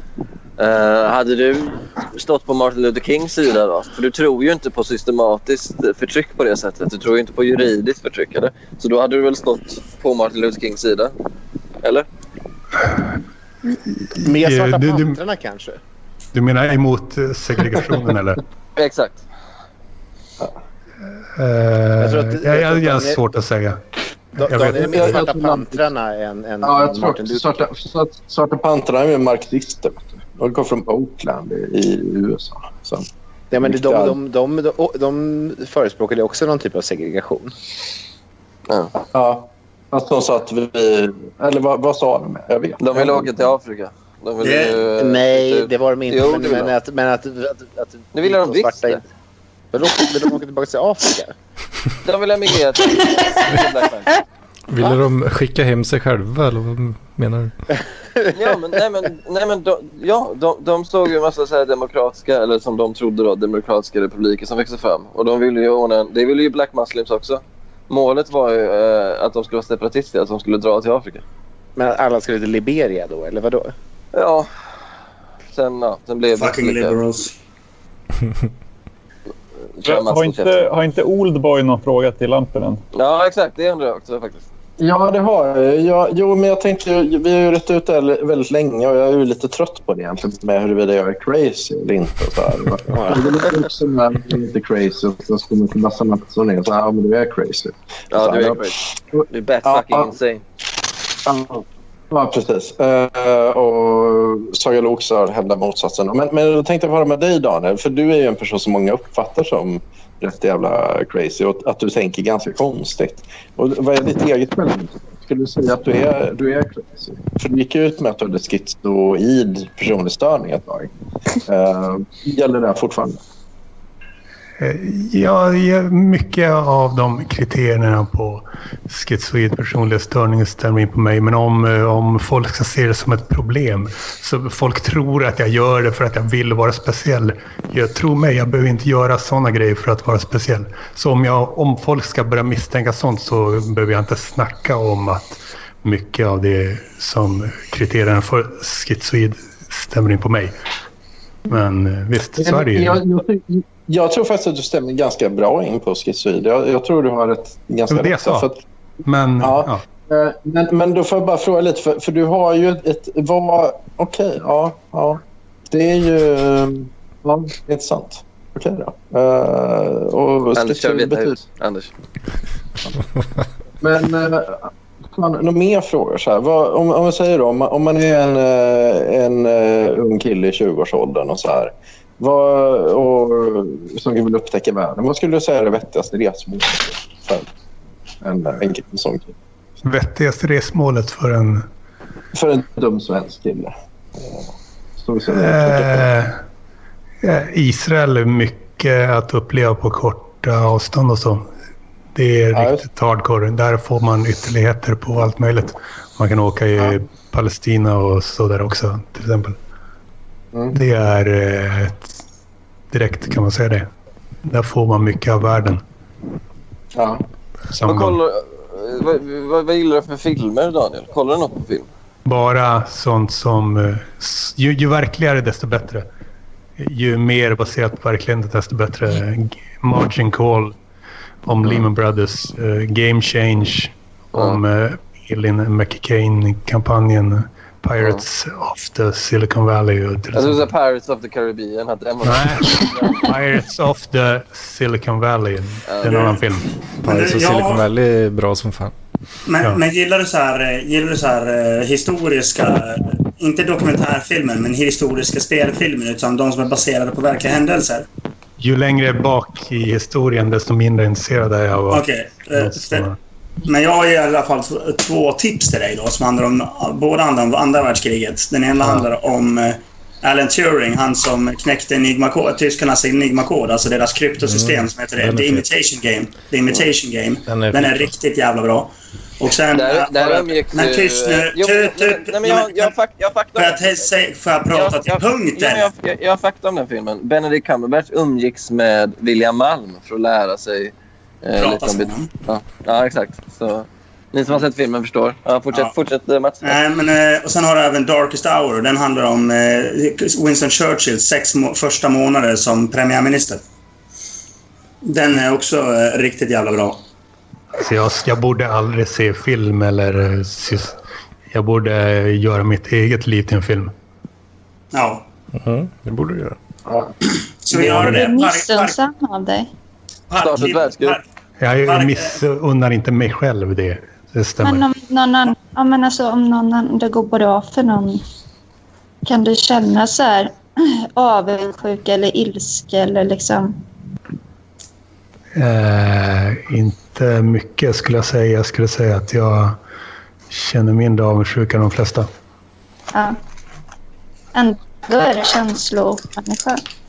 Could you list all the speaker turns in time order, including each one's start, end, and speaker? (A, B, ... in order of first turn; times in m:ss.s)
0:00.6-0:11.1 A
0:14.1-0:15.2 B
0:14.2-0:15.8 C
0:16.3-0:18.4 B
0:18.8-0:19.2 A
0:21.4-0:23.8 B
0:22.0-0:23.2 C
0:24.4-0:25.2 B
0:24.4-0:27.5 C
0:24.7-0:25.8 D
0:26.6-0:33.1 D
0:33.5-0:37.5 C
0:33.6-0:34.2 D
0:39.0-0:43.3 D
0:42.8-0:46.8 A
0:44.4-0:44.8 E
0:45.0-0:49.0 C
0:48.1-0:49.0 A
0:49.7-0:51.3 C
0:52.0-0:54.1 A
0:54.7-0:57.5 F
0:58.3-1:11.2 A
1:11.8-1:13.7 C
1:14.1-1:14.5 A
1:15.5-1:17.0 A
1:16.4-1:17.3 E
1:19.8-1:20.7 A
1:19.8-1:22.8 G
1:22.9-1:24.4 A
1:24.8-1:40.1 D
1:32.9-1:33.4 C
1:38.1-1:40.4 A
1:41.2-2:00.9 D
2:01.4-2:03.2 D
2:04.6-2:30.6 B
2:31.5-2:33.0 B
2:32.4-2:38.6 D
2:37.9-2:38.5 B
2:39.0-2:39.8 B
2:39.4-2:51.4 D
2:50.6-2:51.9 A
2:53.8-3:07.5 D
3:08.2-3:09.3 D
3:09.8-3:11.6 B
3:12.3-3:16.1 D
3:15.3-3:16.4 B
3:17.2-3:21.5 B
3:22.1-3:29.6 B
3:22.5-3:22.8 D
3:30.7-3:32.2 B
3:32.9-3:33.9 B
3:34.4-3:35.8 B
3:36.9-3:37.2 D
3:37.7-3:38.2 B
3:37.8-3:41.9 A
3:42.3-3:46.1 B
3:46.8-3:50.7 B
3:51.4-4:00.7 B
3:54.3-3:54.6 A
4:00.3-4:03.3 A
4:02.2-4:06.7 B
4:05.9-4:06.4 A
4:06.1-4:06.4 E
4:07.0-4:08.9 F
4:07.0-4:07.8 E
4:09.5-4:18.1 E
4:18.6-4:23.2 B
4:21.9-4:23.1 E
4:23.6-4:42.9 E
4:28.8-4:29.1 B
4:34.4-4:35.6 F
4:37.5-4:38.1 F
4:39.7-4:44.1 A
4:43.6-4:45.9 E
4:44.7-4:56.8 A
4:51.6-4:52.3 E
4:56.6-5:03.6 E
5:05.0-5:07.0 E
5:07.8-5:11.0 B
5:11.5-5:13.9 B
5:14.9-5:15.2 E
5:15.5-5:16.6 F
5:16.8-5:17.1 D
5:17.6-5:19.0 E
5:17.9-5:19.7 H
5:20.3-5:21.2 E
5:20.4-5:21.2 A
5:21.6-5:24.8 B
5:21.8-5:22.4 E
5:24.6-5:28.2 H
5:29.2-5:33.8 H
5:35.6-5:39.8 B
5:40.5-5:42.3 B
5:44.5-5:46.8 H